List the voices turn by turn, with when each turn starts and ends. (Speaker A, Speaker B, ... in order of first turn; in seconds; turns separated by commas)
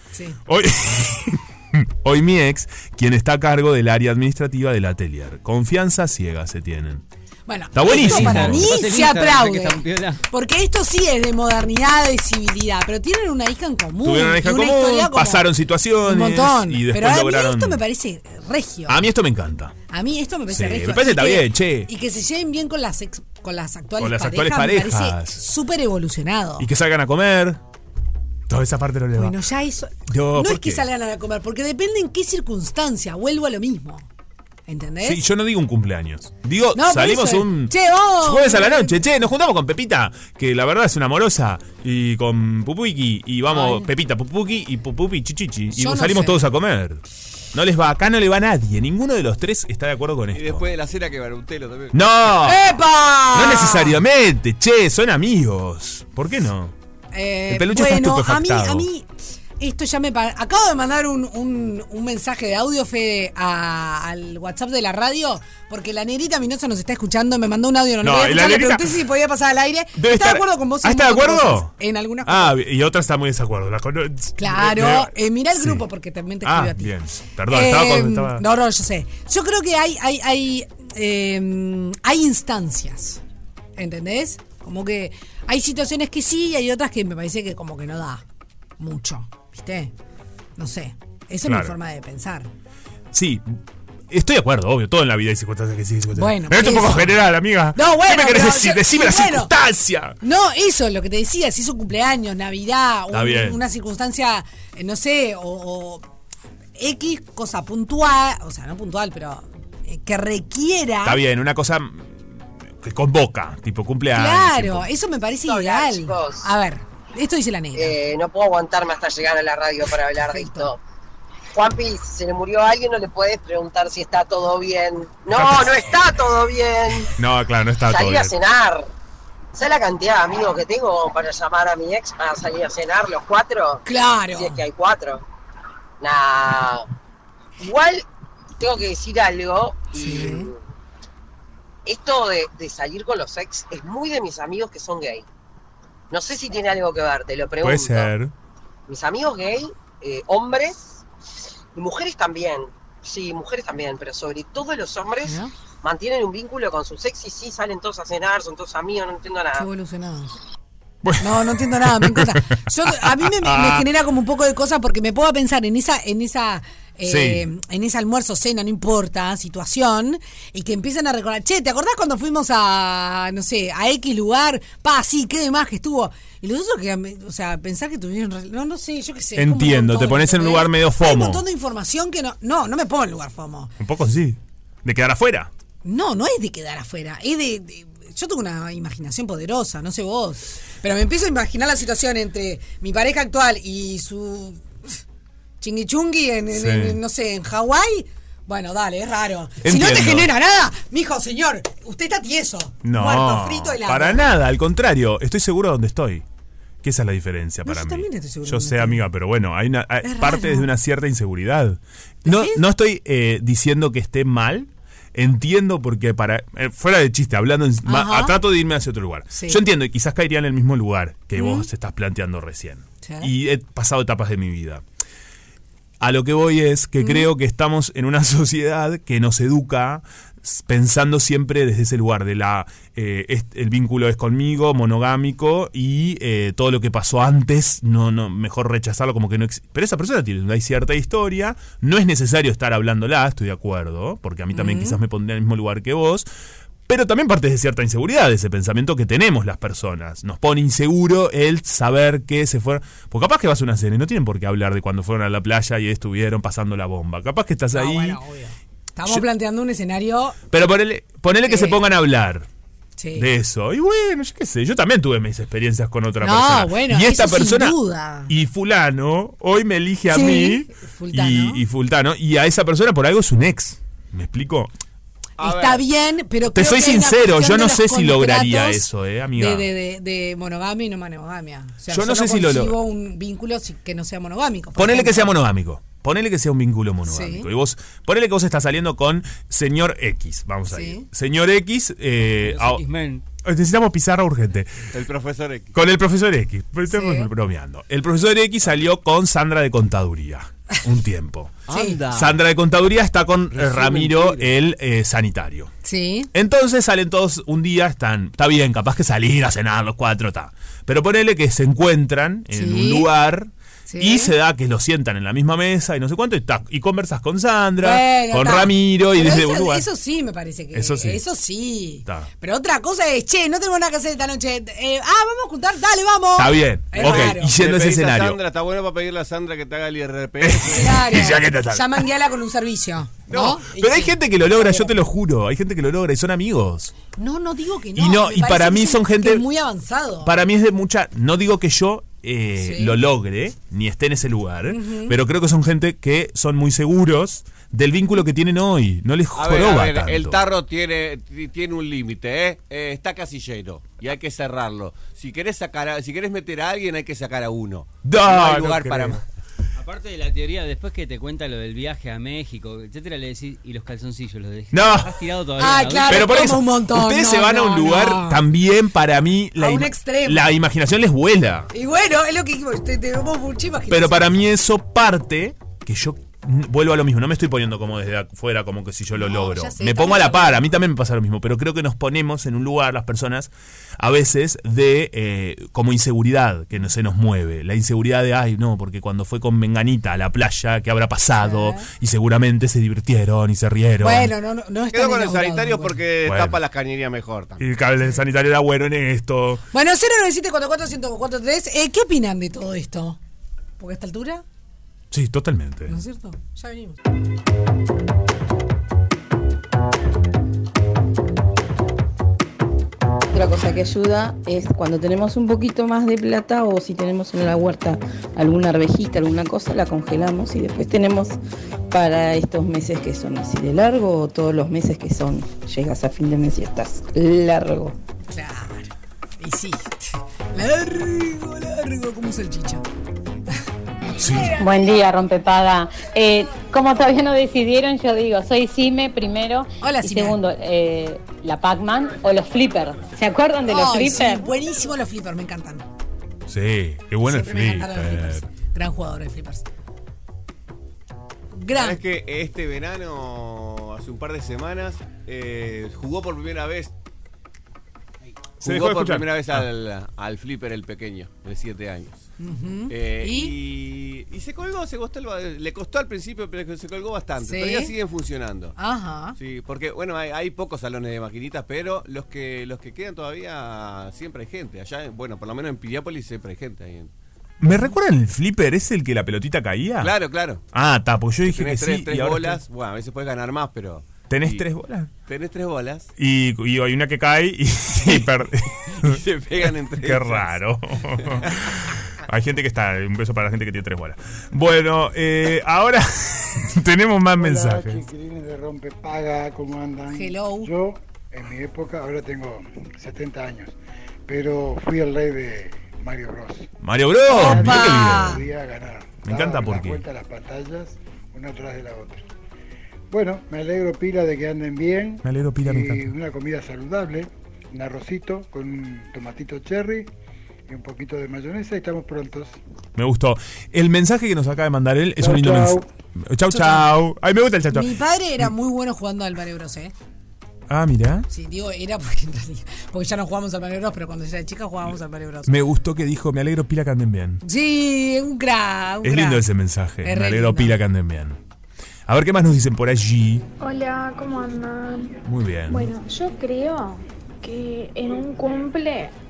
Speaker A: 0.1-0.4, Speaker B: 0.5-7.0, Speaker A: 7.5-15.5, Speaker B: 7.7-8.8, Speaker C: 7.9-10.2, Speaker B: 14.0-17.8, Speaker A: 16.0-19.0, Speaker B: 18.9-19.8, Speaker A: 19.9-26.7, Speaker B: 20.5-21.9, Speaker B: 24.0-25.4, Speaker B: 26.6-27.6, Speaker B: 28.5-29.4, Speaker A: 29.1-34.1, Speaker B: 30.1-30.9, Speaker A: 34.7-35.2, Speaker B: 35.0-50.6, Speaker A: 36.8-39.0, Speaker A: 43.5-43.9, Speaker A: 45.7-46.4, Speaker D: 50.3-52.1, Speaker B: 51.9-52.8, Speaker A: 52.4-54.0, Speaker B: 53.3-56.7, Speaker A: 57.1-72.6, Speaker B: 57.5-58.9, Speaker B: 68.0-68.9, Speaker B: 70.0-71.7, Speaker B: 72.2-75.8, Speaker A: 74.4-76.9, Speaker B: 76.4-78.4, Speaker A: 77.5-83.2, Speaker A: 83.8-88.2, Speaker A: 88.8-89.9, Speaker A: 90.6-92.5, Speaker B: 91.5-91.7, Speaker B: 93.1-93.6, Speaker B: 94.1-100.2, Speaker A: 96.2-97.2, Speaker A: 97.7-99.5, Speaker A: 100.2-106.0, Speaker B: 103.1-103.6, Speaker A: 106.8-111.2, Speaker B: 111.0-114.9, Speaker A: 114.1-118.0, Speaker E: 115.5-116.5, Speaker E: 117.8-120.8, Speaker A: 120.2-120.7, Speaker E: 121.5-127.2, Speaker B: 125.3-126.1, Speaker B: 127.2-128.3, Speaker E: 127.8-128.9, Speaker E: 129.5-135.2, Speaker A: 133.8-134.6, Speaker E: 136.0-136.9, Speaker E: 137.6-138.1, Speaker E: 138.6-140.6, Speaker A: 139.9-140.5, Speaker E: 141.8-145.3, Speaker E: 146.1-148.1, Speaker B: 147.6-148.3, Speaker E: 148.9-151.0, Speaker E: 151.8-159.7, Speaker A: 155.2-155.5, Speaker A: 159.6-160.4, Speaker B: 161.0-163.9, Speaker A: 161.2-183.7, Speaker B: 167.1-167.5, Speaker B: 179.4-181.4, Speaker B: 183.8-185.5, Speaker A: 185.8-194.7, Speaker A: 195.6-204.2, Speaker B: 196.5-197.0, Speaker B: 199.6-200.3, Speaker B: 202.8-206.2, Speaker B: 206.8-224.8, Speaker A: 207.7-209.0, Speaker A: 210.0-210.7, Speaker A: 212.2-212.6, Speaker A: 217.8-218.4, Speaker A: 219.3-219.6, Speaker A: 221.4-221.7, Speaker A: 223.0-223.3, Speaker B: 226.0-246.3, Speaker A: 227.0-227.3, Speaker A: 244.5-245.0, Speaker B: 246.9-258.2, Speaker A: 257.7-260.4, Speaker B: 260.5-262.5, Speaker A: 261.5-261.8, Speaker A: 263.0-263.3, Speaker B: 263.1-267.8, Speaker A: 266.2-268.3, Speaker B: 268.3-274.7, Speaker A: 270.1-271.6, Speaker D: 275.4-275.8, Speaker A: 275.4-285.3, Speaker B: 276.5-279.7, Speaker B: 281.9-282.8, Speaker B: 284.8-292.8, Speaker A: 287.1-287.5, Speaker A: 290.7-291.1, Speaker C: 292.4-293.2, Speaker B: 293.4-294.9, Speaker D: 294.9-295.8, Speaker B: 295.7-305.7, Speaker A: 296.9-297.3, Speaker D: 301.7-302.4, Speaker A: 301.7-302.0, Speaker D: 303.5-304.5, Speaker A: 305.8-306.3, Speaker B: 306.3-319.9, Speaker A: 312.5-313.1, Speaker A: 313.9-314.3, Speaker A: 317.8-327.6, Speaker B: 320.7-321.2, Speaker B: 326.4-328.4, Speaker D: 326.9-331.1, Speaker B: 330.4-332.0, Speaker A: 330.6-334.9, Speaker B: 333.3-336.9, Speaker A: 337.1-340.4, Speaker B: 337.9-339.4, Speaker B: 340.2-350.4, Speaker A: 342.6-343.0, Speaker A: 344.7-345.2, Speaker D: 349.3-359.2, Speaker B: 358.0-359.2, Speaker C: 359.8-366.5, Speaker B: 364.7-365.1, Speaker A: 365.6-368.4, Speaker B: 366.1-371.7, Speaker A: 369.6-370.6, Speaker A: 371.7-374.3, Speaker B: 373.9-394.3, Speaker A: 379.1-380.7, Speaker A: 391.4-391.9, Speaker A: 394.0-396.0, Speaker D: 394.9-397.7, Speaker B: 396.2-396.6, Speaker B: 397.6-399.6, Speaker A: 399.7-403.2, Speaker A: 403.8-404.4, Speaker B: 405.1-406.0, Speaker A: 405.9-407.0, Speaker F: 413.3-421.4, Speaker F: 421.9-428.0, Speaker A: 428.3-432.9, Speaker B: 434.2-434.6, Speaker G: 434.5-444.5, Speaker A: 439.8-440.4, Speaker A: 443.7-445.9, Speaker B: 446.5-448.5, Speaker A: 447.2-449.6, Speaker A: 451.5-452.0, Speaker D: 451.7-456.9, Speaker B: 458.6-459.7, Speaker D: 458.6-462.3, Speaker A: 462.4-463.6, Speaker D: 462.9-468.7, Speaker A: 467.4-467.9, Speaker A: 468.8-469.4, Speaker D: 469.4-477.1, Speaker B: 477.6-480.1, Speaker A: 477.6-477.9, Speaker D: 480.0-480.6, Speaker B: 480.7-482.6, Speaker D: 481.4-484.6, Speaker B: 484.3-485.1, Speaker D: 485.3-486.1, Speaker B: 486.2-498.0, Speaker D: 488.9-490.5, Speaker D: 491.2-491.7, Speaker H: 497.4-503.8, Speaker A: 500.1-500.7, Speaker H: 504.3-506.7, Speaker B: 506.8-508.4, Speaker A: 507.3-508.4, Speaker H: 507.3-512.2, Speaker B: 509.2-510.1, Speaker H: 513.1-520.1, Speaker B: 515.2-516.1, Speaker H: 520.7-522.6, Speaker B: 523.0-528.5, Speaker H: 525.2-525.9, Speaker A: 526.5-526.9, Speaker A: 527.7-529.9, Speaker B: 530.7-531.3, Speaker A: 531.3-535.5, Speaker B: 535.5-537.4, Speaker A: 537.4-539.5, Speaker B: 539.0-541.4, Speaker A: 540.0-540.8, Speaker B: 542.1-543.5, Speaker I: 543.6-545.2, Speaker B: 545.2-545.9, Speaker I: 545.7-549.1